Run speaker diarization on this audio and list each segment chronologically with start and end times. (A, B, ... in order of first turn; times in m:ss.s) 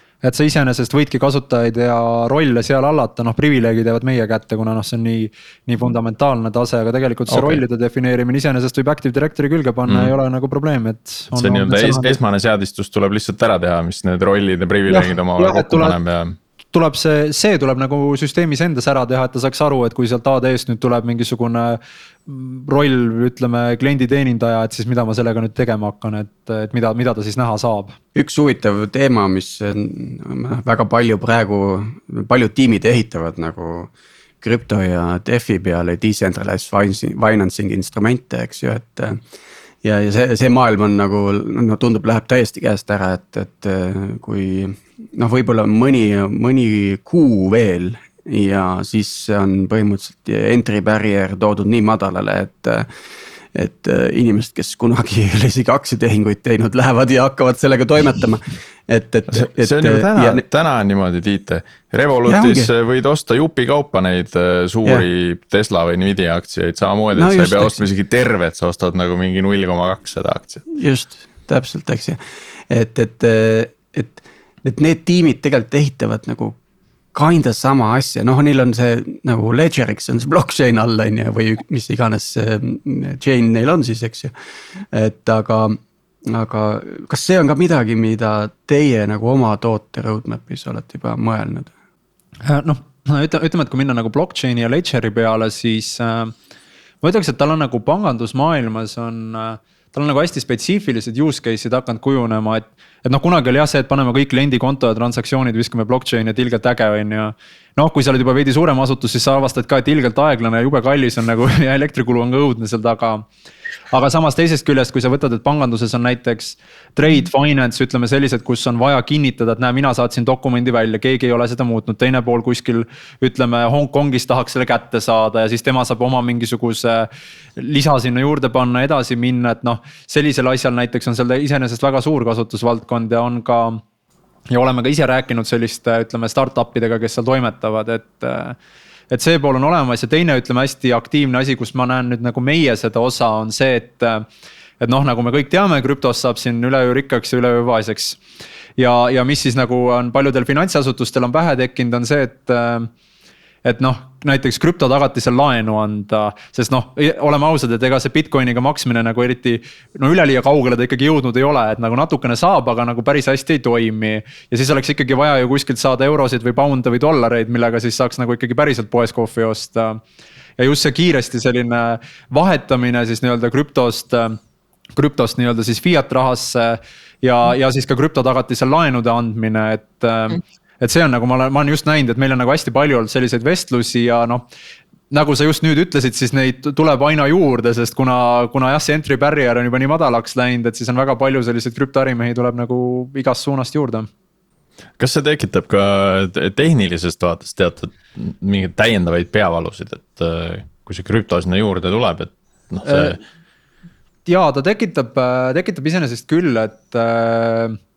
0:00.2-0:12.2 A
0:07.3-0:07.6 B
0:09.9-0:10.1 B
0:11.3-0:16.4 B
0:14.9-0:16.0 A
0:16.7-0:28.0 A
0:28.1-0:33.9 C
0:34.4-0:39.2 C
0:39.8-0:52.9 C
0:53.5-1:00.4 C
0:59.3-1:10.6 B
1:02.2-1:02.7 C
1:07.1-1:07.8 C
1:10.7-1:12.2 C
1:12.7-1:16.6 C
1:17.1-1:24.3 C
1:24.9-1:31.7 C
1:32.4-1:36.3 A
1:37.0-1:53.2 A
1:53.9-2:13.8 A
2:14.5-2:18.6 A
2:19.1-2:24.2 A
2:24.8-2:28.2 A
2:28.8-2:32.9 A
2:33.6-2:50.0 A
2:50.6-2:54.4 A
2:55.0-3:04.4 A
3:05.1-3:14.1 A
3:15.0-3:23.2 B
3:22.8-3:23.2 A
3:24.2-3:27.8 A